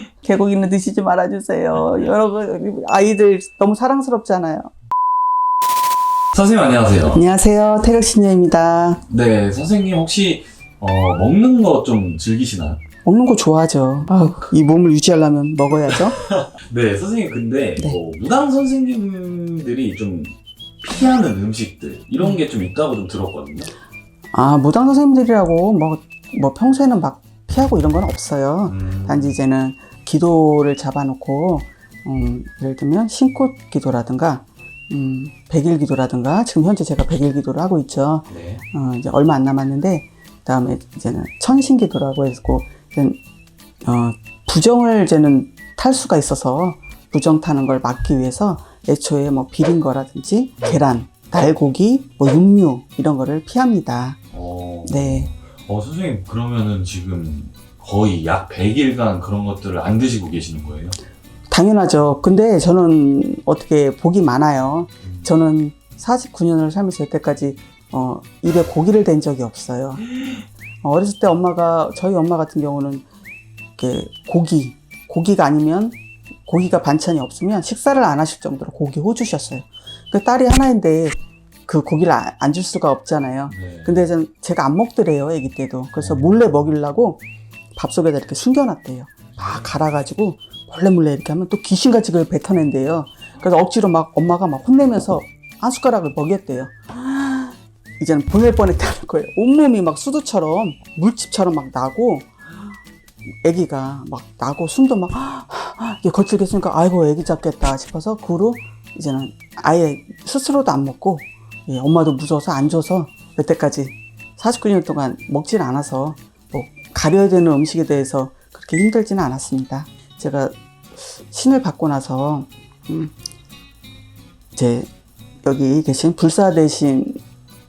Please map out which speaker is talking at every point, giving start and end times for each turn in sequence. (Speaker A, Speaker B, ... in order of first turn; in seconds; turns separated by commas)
Speaker A: 0.2-4.7, Speaker B: 6.3-7.2, Speaker A: 7.1-9.0, Speaker B: 9.1-12.8, Speaker A: 13.0-16.2, Speaker B: 15.9-23.7, Speaker A: 24.3-43.2, Speaker B: 28.7-29.4, Speaker B: 38.3-38.6, Speaker A: 43.8-54.2, Speaker B: 54.3-61.0, Speaker A: 54.8-55.3, Speaker A: 61.5-70.1, Speaker B: 65.0-65.5, Speaker A: 70.8-73.0, Speaker A: 73.8-81.2, Speaker A: 81.7-87.2, Speaker B: 83.5-84.1, Speaker B: 86.0-86.3, Speaker A: 87.8-102.3, Speaker A: 103.4-120.6, Speaker A: 121.3-123.1, Speaker A: 124.5-124.9, Speaker A: 125.4-127.2